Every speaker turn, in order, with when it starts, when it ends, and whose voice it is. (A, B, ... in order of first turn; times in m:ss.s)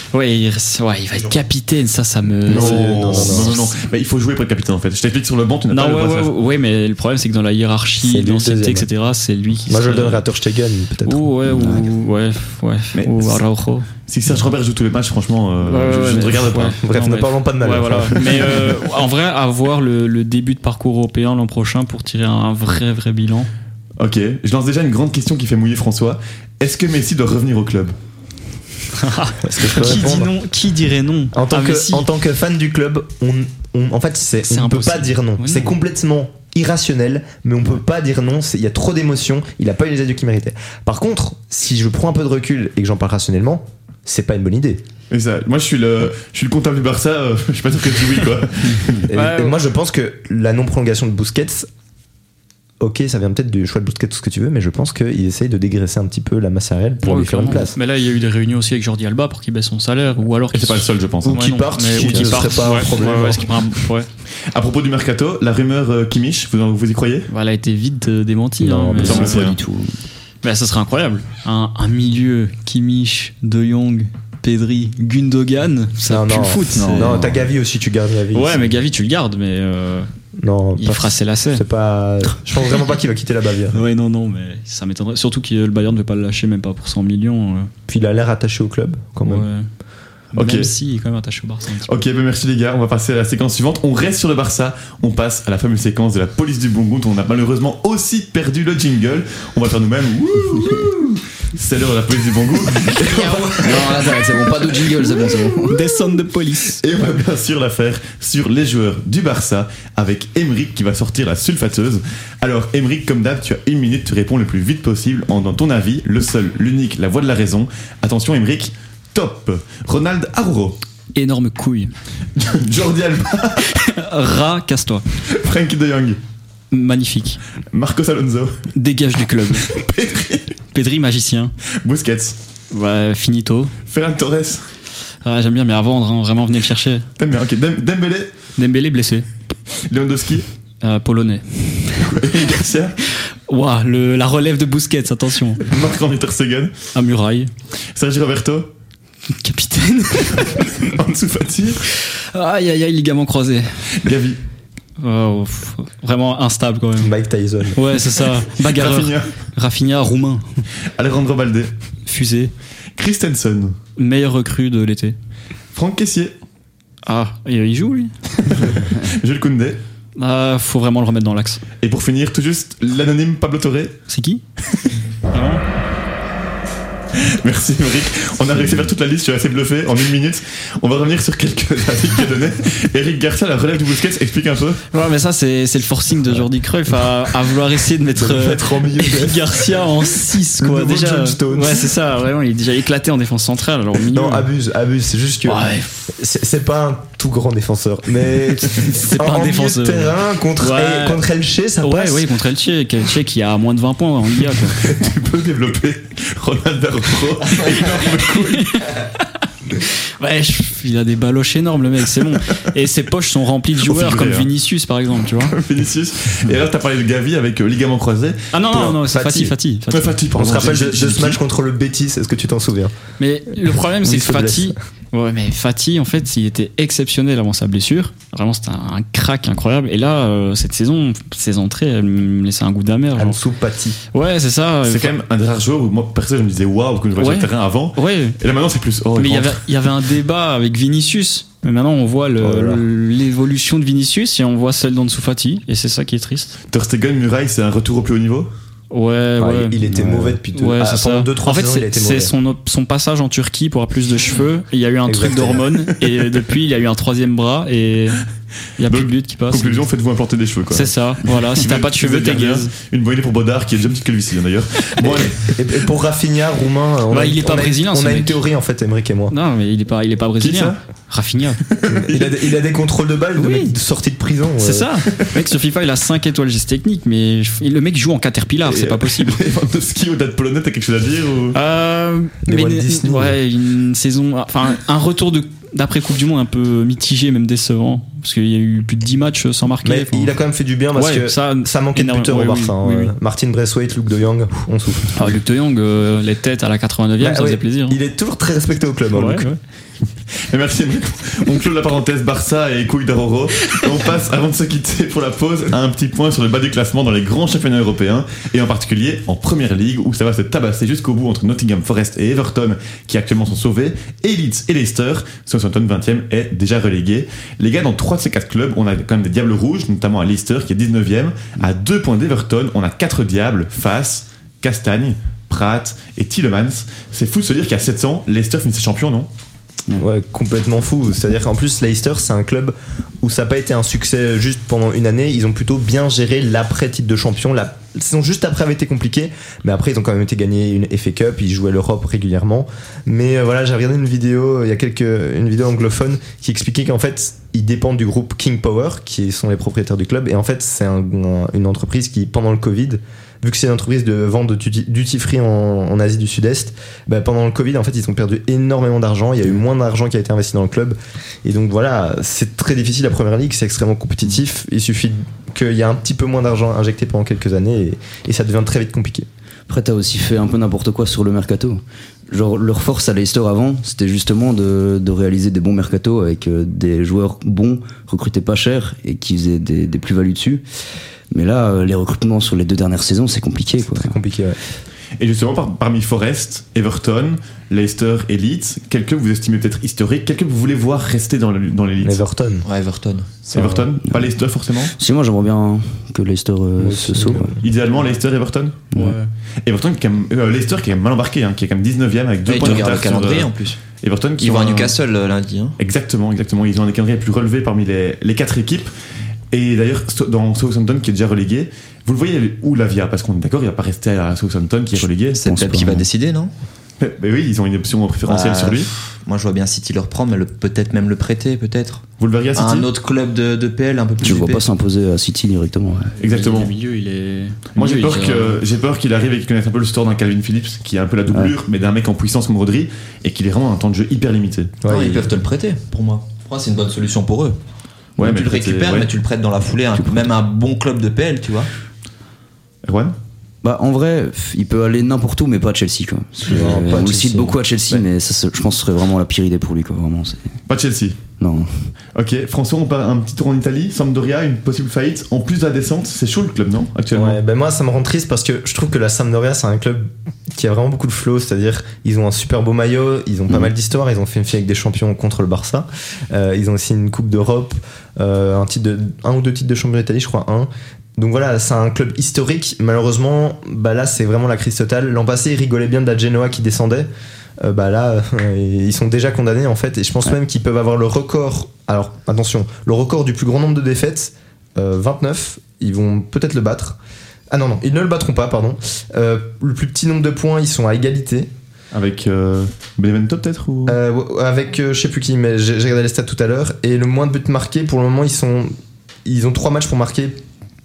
0:00.1-0:03.6 A
0:02.5-0:03.6 B
0:02.5-0:06.3 C
0:05.7-0:10.2 A
0:08.0-0:08.9 B
0:09.7-0:11.2 B
0:11.0-0:13.9 A
0:11.6-0:11.8 D
0:13.0-0:13.4 C
0:14.1-0:16.8 C
0:15.6-0:23.5 A
0:16.8-0:18.6 B
0:24.0-0:28.0 C
0:29.0-0:32.1 A
0:29.4-0:30.3 B
0:31.3-0:44.8 B
0:34.4-0:35.7 A
0:45.1-0:49.1 C
0:49.1-0:51.7 B
0:49.1-0:49.6 A
0:52.8-0:57.8 B
0:57.0-1:04.1 A
1:00.5-1:01.4 C
1:01.2-1:03.6 B
1:04.5-1:07.3 C
1:07.3-1:09.4 A
1:08.6-1:09.9 D
1:09.0-1:09.6 C
1:10.4-1:17.2 A
1:16.1-1:18.7 B
1:16.8-1:17.4 D
1:18.3-1:20.1 A
1:20.4-1:23.8 B
1:20.8-1:21.6 A
1:23.7-1:27.7 A
1:27.9-1:29.5 B
1:29.2-1:29.7 A
1:30.3-1:32.0 A
1:30.4-1:30.7 C
1:31.9-1:44.1 C
1:43.2-1:45.7 D
1:45.6-1:46.8 A
1:46.8-2:00.8 C
2:01.2-2:01.9 A
2:02.4-2:03.8 C
2:03.6-2:05.0 A
2:05.3-2:06.2 C
2:06.7-2:07.4 A
2:07.7-2:08.7 C
2:08.7-2:09.7 A
2:09.6-2:10.6 C
2:10.7-2:11.5 A
2:11.8-2:12.4 C
2:12.7-2:13.7 A
2:13.9-2:14.6 C
2:15.2-2:17.1 A
2:17.2-2:18.3 C
2:18.6-2:19.3 A
2:19.9-2:20.5 C
2:20.8-2:22.1 A
2:22.0-2:23.0 C
2:23.5-2:25.6 A
2:25.6-2:26.7 C
2:26.9-2:27.5 A
2:28.0-2:28.7 C
2:29.3-2:30.8 A
2:30.4-2:31.8 C
2:32.0-2:33.8 A
2:34.0-2:34.4 C
2:35.0-2:37.1 A
2:37.0-2:37.8 B
2:37.7-2:40.6 A
2:38.5-2:39.3 C
2:41.0-2:41.7 C
2:42.1-2:42.5 A
2:43.0-2:43.8 C
2:44.0-2:45.2 A
2:45.7-2:46.4 C
2:47.0-2:48.8 A
2:48.5-2:49.8 C
2:50.2-2:51.6 A
2:51.8-2:54.0 C
2:54.1-2:54.4 A
2:55.3-2:55.6 A
2:57.1-3:04.8 C
3:04.9-3:14.5 A
3:08.2-3:09.6 B
3:10.6-3:11.9 B
3:14.1-3:22.3 B
3:15.4-3:16.1 A
3:18.6-3:21.2 A
3:21.8-3:24.9 A
3:24.7-3:28.9 C
3:28.2-3:29.1 A
3:29.8-3:35.6 A
3:33.8-3:34.5 C
3:35.5-3:38.5 C
3:38.5-3:40.2 A
3:38.7-3:39.6 B
3:39.9-3:41.4 C
3:40.3-3:42.9 B
3:43.2-3:53.4 A
3:44.0-3:44.8 B
3:53.2-3:54.0 B
3:54.1-3:55.1 A
3:54.8-3:59.6 C
3:57.2-3:58.4 A
3:59.2-4:06.6 A
4:02.4-4:02.8 B
4:06.7-4:08.5 C
4:08.9-4:09.8 A
4:09.4-4:12.3 B
4:09.8-4:10.4 D
4:10.5-4:18.2 A
4:15.0-4:15.7 B
4:18.8-4:19.9 A
4:18.9-4:25.6 C
4:20.7-4:22.7 A
4:25.4-4:29.3 B
4:27.1-4:28.4 A
4:29.3-4:31.6 A
4:30.4-4:30.8 C
4:31.6-4:32.4 C
4:31.9-4:34.9 B
4:33.4-4:33.7 A
4:34.6-4:39.4 A
4:38.7-4:41.6 C
4:41.5-4:50.3 A
4:42.5-4:43.4 B
4:49.8-4:55.3 B
4:51.0-4:53.1 A
4:55.1-4:58.0 A
4:57.2-4:59.5 B
4:59.1-4:59.6 A
5:00.5-5:29.3 C
5:30.0-6:09.3 B
6:09.7-6:20.6 D
6:21.3-6:24.1 D
6:23.9-6:24.6 B
6:25.2-6:32.2 C
6:32.0-6:32.7 B
6:32.6-6:33.4 E
6:33.5-6:34.9 C
6:35.0-6:37.6 D
6:36.8-6:37.6 B
6:37.6-6:38.9 C
6:38.9-6:39.2 D
6:38.9-6:39.3 A
6:39.6-6:45.0 C
6:42.5-6:43.8 E
6:44.4-6:45.8 E
6:45.8-6:48.9 C
6:49.5-6:55.4 C
6:55.3-6:56.5 E
6:55.4-6:56.1 D
6:57.0-6:58.9 C
6:58.3-7:02.0 E
7:02.2-7:02.9 C
7:02.6-7:04.7 E
7:04.2-7:06.1 D
7:06.2-7:08.6 A
7:06.2-7:06.7 C
7:07.8-7:14.8 C
7:14.8-7:15.3 B
7:14.9-7:17.6 E
7:18.2-7:19.1 C
7:18.2-7:21.7 E
7:20.0-7:20.3 D
7:22.8-7:23.1 C
7:23.6-7:30.5 D
7:26.5-7:28.0 E
7:30.7-7:31.2 C
7:31.4-7:31.9 D
7:32.2-7:37.4 C
7:37.1-7:57.1 B
7:57.6-8:07.0 B
8:07.5-8:11.5 B
8:11.9-8:14.0 C
8:13.9-8:18.7 B
8:19.2-8:20.4 B